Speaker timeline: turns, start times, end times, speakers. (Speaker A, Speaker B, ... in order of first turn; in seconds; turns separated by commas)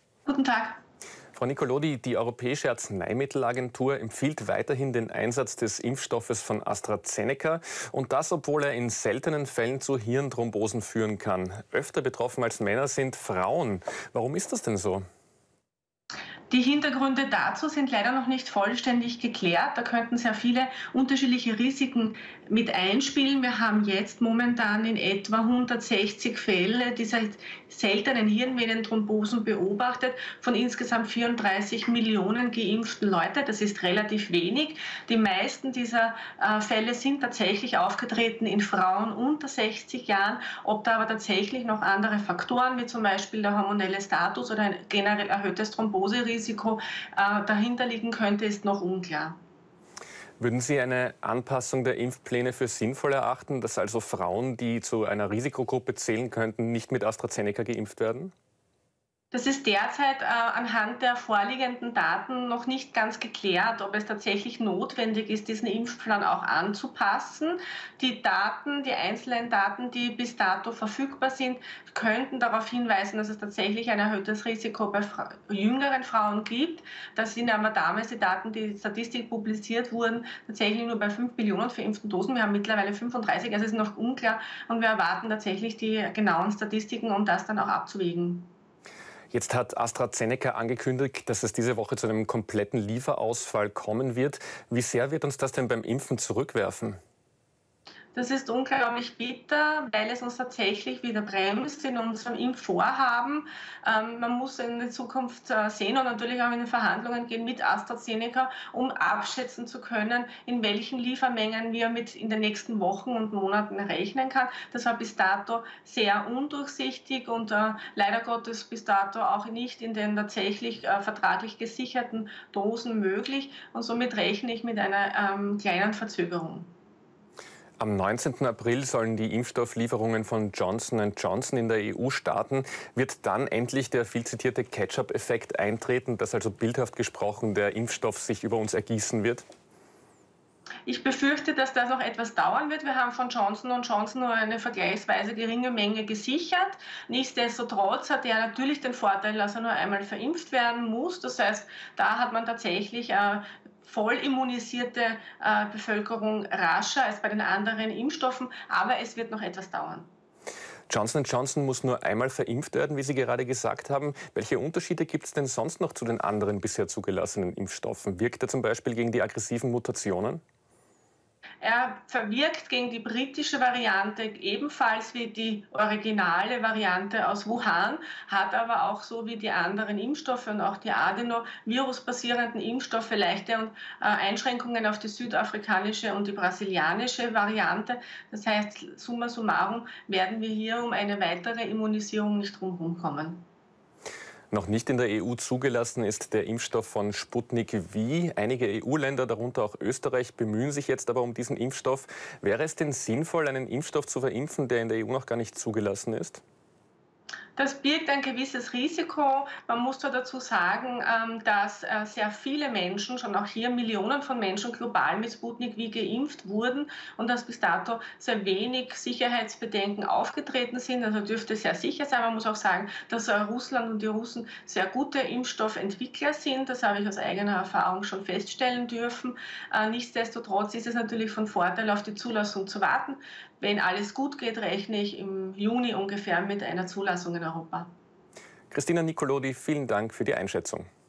Speaker A: 0.3-0.8, Speaker B: 1.3-15.0, Speaker A: 16.5-49.4, Speaker B: 50.4-58.3, Speaker A: 59.3-88.5, Speaker B: 89.3-97.0, Speaker A: 98.1-126.7, Speaker B: 127.8-139.4, Speaker A: 140.8-160.1, Speaker B: 160.9-170.4, Speaker A: 171.6-193.4, Speaker B: 194.5-206.4, Speaker A: 207.6-237.9, Speaker B: 238.7-240.9